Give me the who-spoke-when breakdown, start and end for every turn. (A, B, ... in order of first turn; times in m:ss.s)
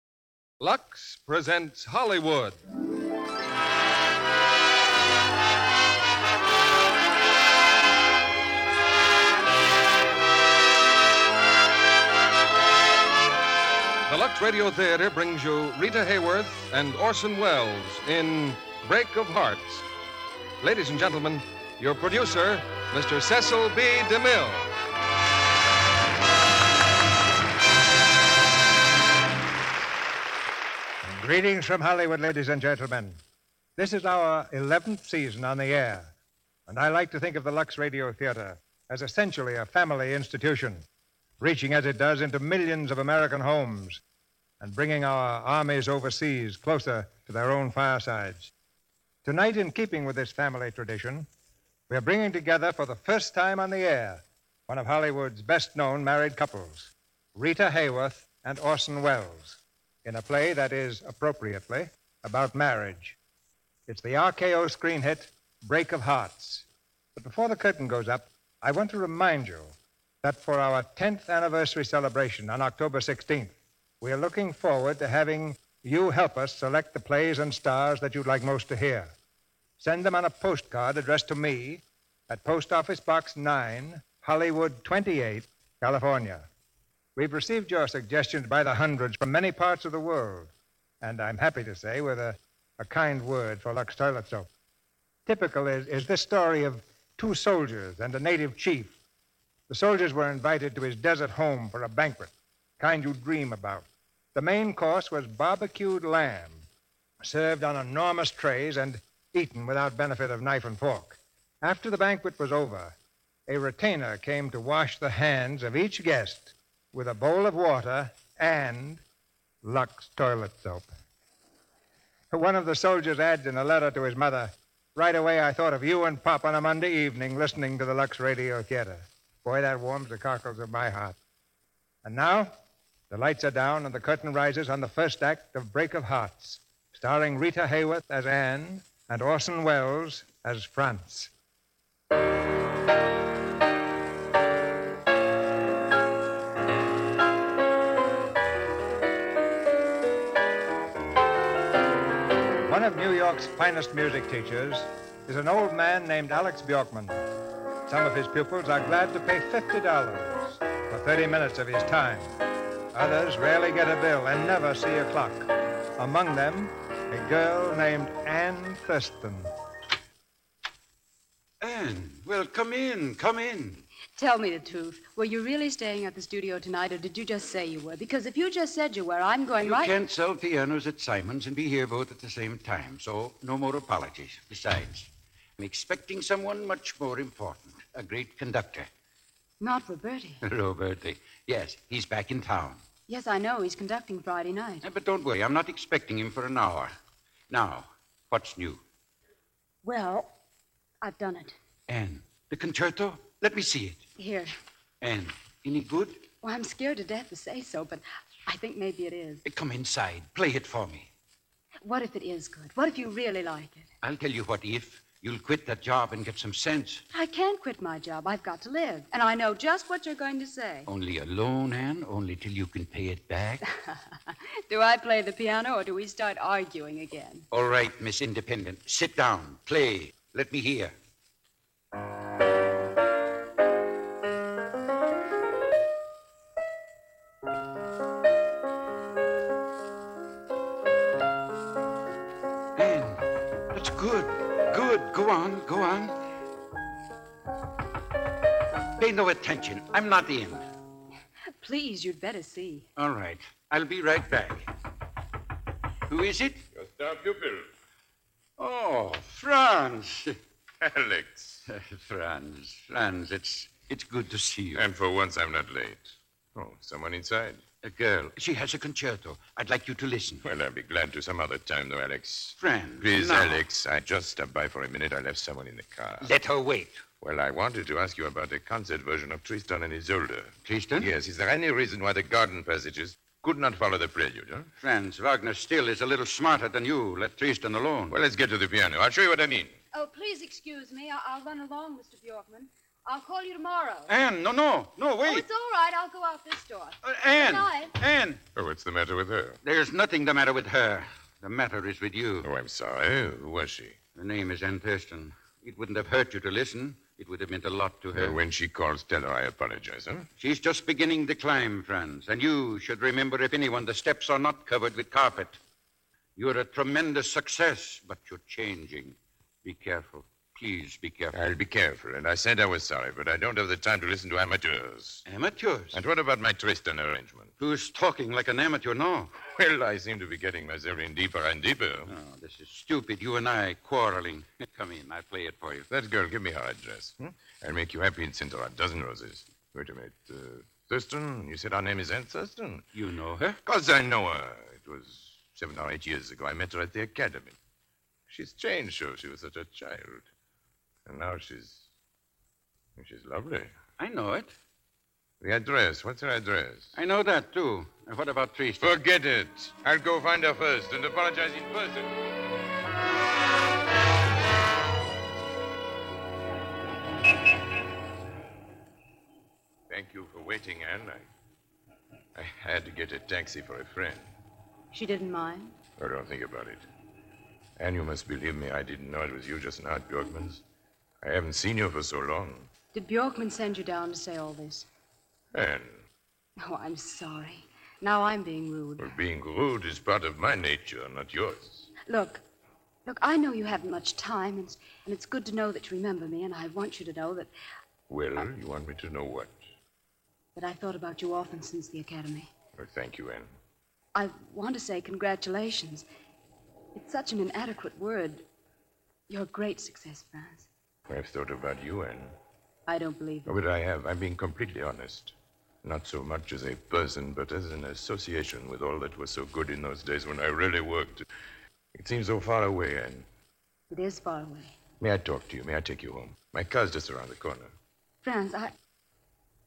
0:00.6-0:02.6 A
0:14.1-0:19.8 A
0:20.6-0:24.7 A
0:31.0-0:33.2 B
0:33.8-0:36.1 B
0:36.7-0:40.9 B
0:41.4-0:44.0 B
0:44.6-0:48.5 B
0:49.2-0:51.3 B
0:51.9-1:03.2 B
1:03.9-1:19.2 B
1:19.8-1:26.5 B
1:27.2-1:34.5 B
1:35.3-1:39.0 B
1:39.7-1:46.7 B
1:47.2-1:59.0 B
1:59.6-2:00.9 B
2:02.3-2:11.2 B
2:12.0-2:12.5 B
2:13.1-2:21.3 B
2:32.6-2:37.2 B
2:37.9-2:42.4 B
2:42.9-2:49.5 B
2:51.6-2:53.8 C
2:54.2-2:59.9 D
2:59.6-3:08.9 C
3:09.6-3:10.4 D
3:10.4-3:12.8 C
3:13.1-3:14.8 D
3:14.8-3:16.9 C
3:17.5-3:18.8 C
3:19.8-3:20.3 D
3:21.0-3:21.6 D
3:21.9-3:24.0 C
3:24.2-3:24.5 D
3:25.0-3:26.2 C
3:26.4-3:29.4 D
3:29.4-3:31.1 C
3:31.8-3:33.9 D
3:34.0-3:37.0 C
3:37.1-3:40.9 D
3:40.9-3:43.6 C
3:43.9-3:47.5 D
3:47.5-3:50.9 C
4:02.8-4:06.2 C
4:09.0-4:10.6 C
4:11.6-4:12.9 D
4:13.0-4:14.6 C
4:16.1-4:16.6 C
4:16.7-4:17.7 E
4:18.6-4:20.4 C
4:20.8-4:21.6 E
4:21.7-4:24.8 C
4:24.7-4:27.6 E
4:27.8-4:30.4 C
4:30.4-4:36.3 E
4:32.6-4:33.6 C
4:36.2-4:37.0 C
4:37.2-4:44.7 E
4:40.6-4:41.1 C
4:44.8-4:48.2 C
4:48.1-4:49.7 E
4:49.9-4:54.1 D
4:54.1-4:55.4 C
4:55.2-4:57.9 D
4:57.0-4:58.4 C
4:58.6-4:59.6 E
4:59.6-5:02.5 C
5:02.4-5:04.0 E
5:04.2-5:08.4 C
5:08.1-5:10.3 E
5:10.4-5:15.6 C
5:16.4-5:21.4 C
5:21.3-5:25.2 E
5:25.2-5:26.0 C
5:25.9-5:27.5 E
5:27.6-5:29.3 C
5:29.5-5:32.1 E
5:32.1-5:35.9 C
5:35.9-5:42.8 E
5:42.9-5:43.6 C
5:43.6-5:47.6 E
5:48.3-5:50.2 E
5:51.0-5:51.9 E
5:53.0-5:53.7 E
5:54.0-5:54.5 C
5:55.4-5:56.9 E
5:56.9-5:58.9 C
5:58.8-6:02.1 E
6:09.9-6:11.2 E
6:12.3-6:14.3 E
6:14.9-6:15.7 D
6:16.0-6:16.8 E
6:17.8-6:20.6 E
6:21.2-6:22.7 E
6:22.9-6:24.9 D
6:25.5-6:26.0 E
6:26.6-6:29.1 D
6:29.0-6:31.9 E
6:32.1-6:32.4 D
6:33.0-6:37.5 D
6:38.1-6:39.6 E
6:40.6-6:42.5 D
6:42.8-6:43.5 E
6:44.1-6:46.0 D
6:46.9-6:48.4 D
6:49.3-6:50.7 D
6:51.1-6:52.3 E
6:52.9-6:53.5 D
6:53.4-7:01.2 E
7:01.9-7:03.2 E
7:03.9-7:04.8 D
7:05.0-7:07.7 E
7:08.2-7:08.7 D